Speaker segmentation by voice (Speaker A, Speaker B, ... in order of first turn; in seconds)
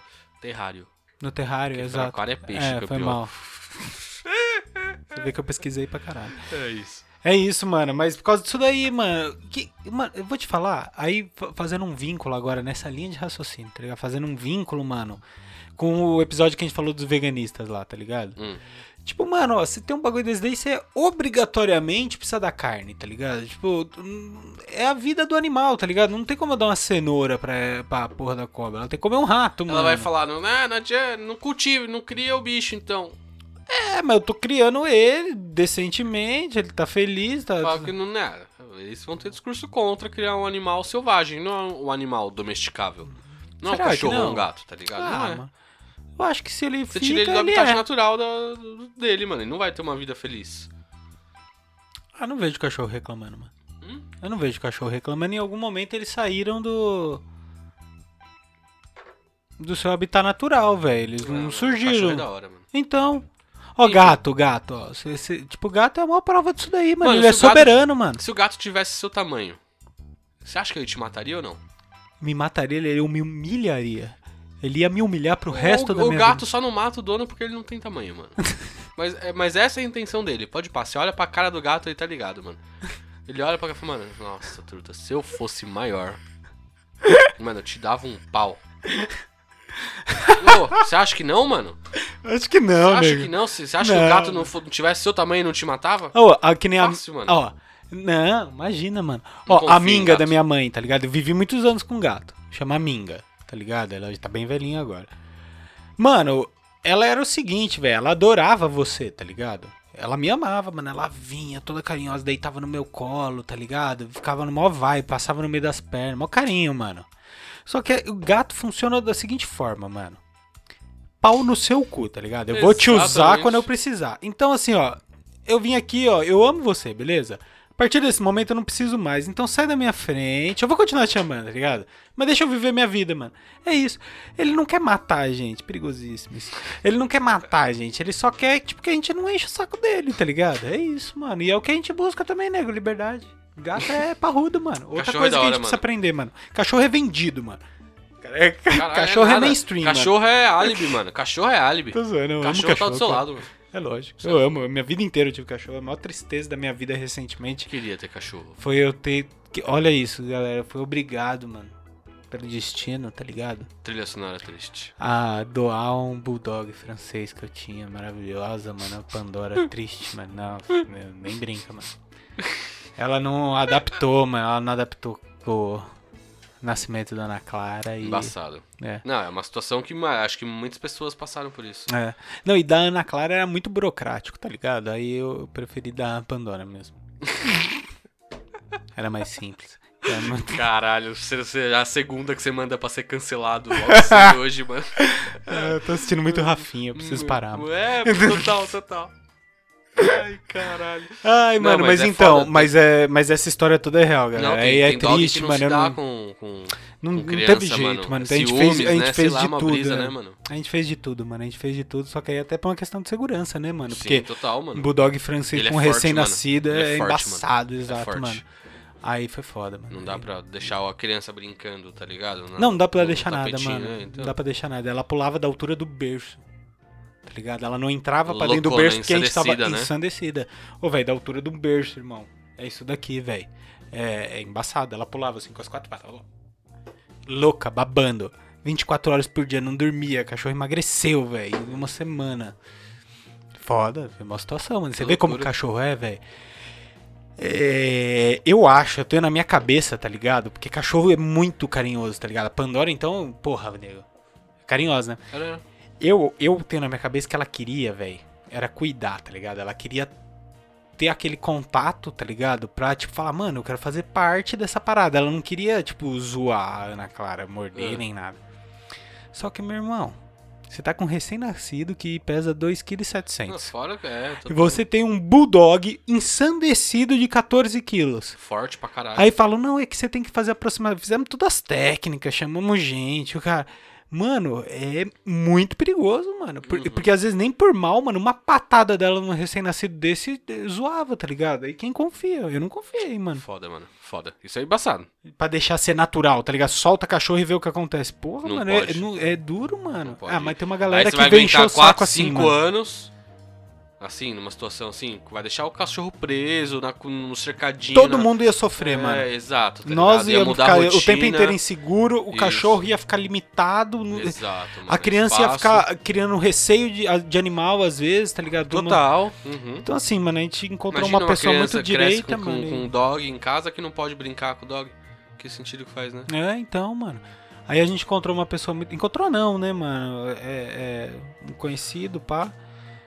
Speaker A: 0.4-0.9, 1.7-3.3, 4.0-5.0, 6.3-7.0, 29.7-33.2, 37.6-45.4, 46.9-50.7, 53.8-54.1, 61.2-62.6, 63.8-64.2, 67.0-69.6, 70.4-71.6, 75.5-78.4, 79.0-82.6, 83.2-86.2, 87.4-88.6, 90.3-91.8, 92.8-96.1, 96.8-97.4, 99.5-100.3, 122.5-123.7, 144.9-145.8, 148.7-153.5, 157.7-158.6, 163.8-164.9, 172.4-172.7, 178.0-181.9, 187.2-187.5, 190.1-199.1, 200.0-202.7, 204.3-210.4, 213.9-214.9, 215.5-218.4, 219.9-224.3, 228.2-229.9, 245.0-245.5, 255.3-255.6, 267.7-268.0, 273.5-274.8, 278.4-279.3, 286.6-287.1, 293.4-295.1, 298.4-299.0, 300.0-303.1, 304.0-311.6, 312.3-312.8, 314.1-315.9, 318.7-319.9, 320.9-326.3
Speaker B: 1.2-3.9, 5.1-6.4, 7.2-15.2, 15.8-18.4, 19.0-30.1, 33.7-37.9, 43.6-45.5, 46.2-47.8, 52.1-53.5, 54.2-57.2, 59.6-68.2, 72.2-76.5, 90.0-90.8, 92.1-94.5, 96.1-105.1, 106.0-117.1, 117.7-120.2, 121.2-147.6, 148.2-151.0, 151.9-157.7, 158.6-161.7, 162.3-163.7, 165.0-171.9, 173.0-175.9, 176.6-179.0, 181.9-187.0, 188.9-190.6, 193.8-194.4, 195.0-198.7, 201.2-206.0, 207.0-218.4, 219.0-220.2, 222.6-226.4, 227.2-236.2, 237.3-242.6, 243.6-246.2, 247.4-254.0, 254.7-255.2, 256.0-260.1, 261.0-268.4, 269.3-270.2, 270.7-273.7, 274.5-278.4, 279.1-293.4, 295.3-302.6, 307.9-309.3, 309.8-319.0, 319.8-322.9, 326.3-332.5